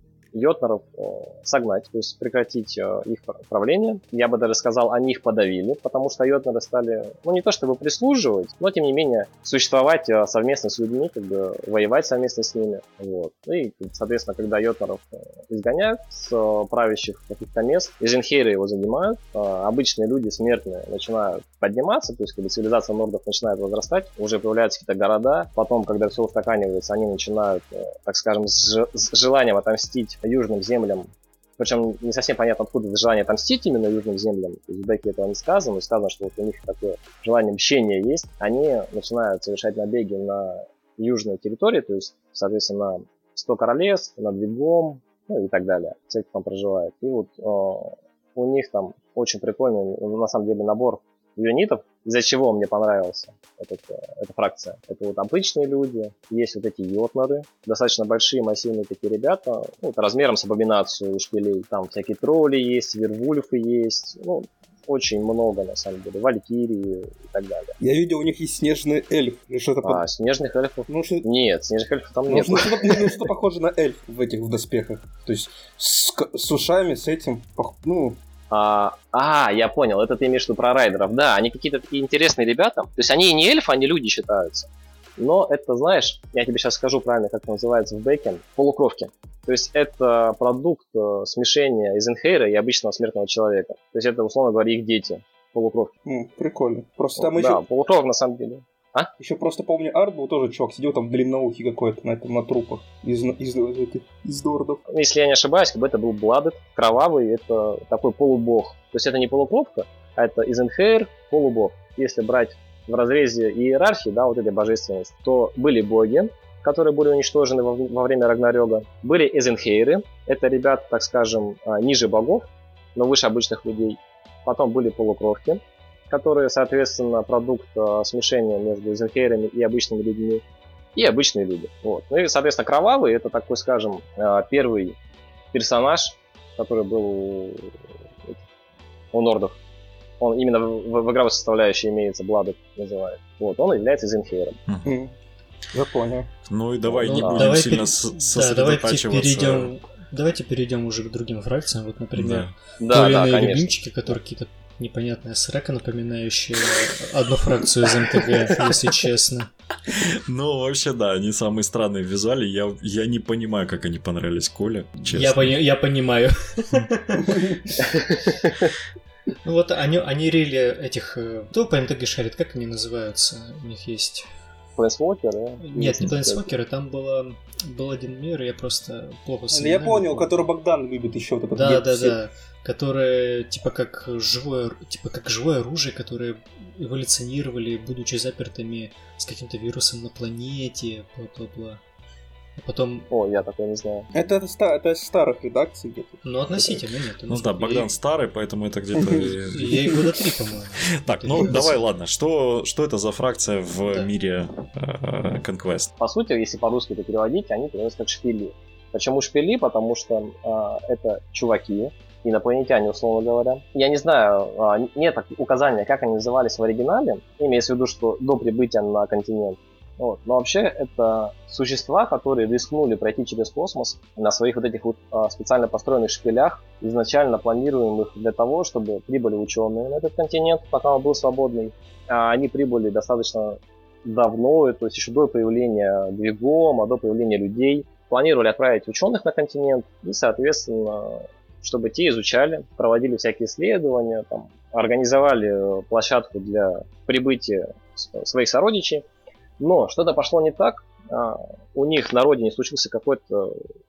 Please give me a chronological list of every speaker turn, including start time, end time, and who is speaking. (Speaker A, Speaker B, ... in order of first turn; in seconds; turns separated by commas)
Speaker A: 0.3-67.8, Speaker B: 67.8-70.0, Speaker A: 69.8-73.1, Speaker B: 70.9-71.2, Speaker B: 72.3-78.2, Speaker A: 78.5-95.9, Speaker B: 96.1-97.6, Speaker A: 97.2-99.1, Speaker B: 99.2-104.8, Speaker A: 104.9-130.4, Speaker A: 131.0-135.0, Speaker A: 135.5-138.4, Speaker A: 139.1-139.6, Speaker A: 140.2-144.6, Speaker C: 144.7-144.9, Speaker B: 144.9-145.1, Speaker B: 145.7-146.3, Speaker C: 146.5-149.7, Speaker D: 147.0-159.5, Speaker A: 147.2-147.6, Speaker C: 152.2-152.5, Speaker A: 152.8-154.2, Speaker C: 159.9-165.6, Speaker D: 165.1-167.4, Speaker D: 169.4-174.3, Speaker A: 174.8-176.5, Speaker D: 175.6-180.4, Speaker B: 179.5-182.2, Speaker D: 181.5-191.8, Speaker D: 192.6-193.1, Speaker A: 193.1-194.1, Speaker B: 194.1-196.8, Speaker D: 196.2-197.9, Speaker C: 197.3-200.0, Speaker B: 199.0-200.0, Speaker D: 199.5-201.8, Speaker C: 200.9-205.9, Speaker A: 206.0-249.1, Speaker A: 249.6-253.7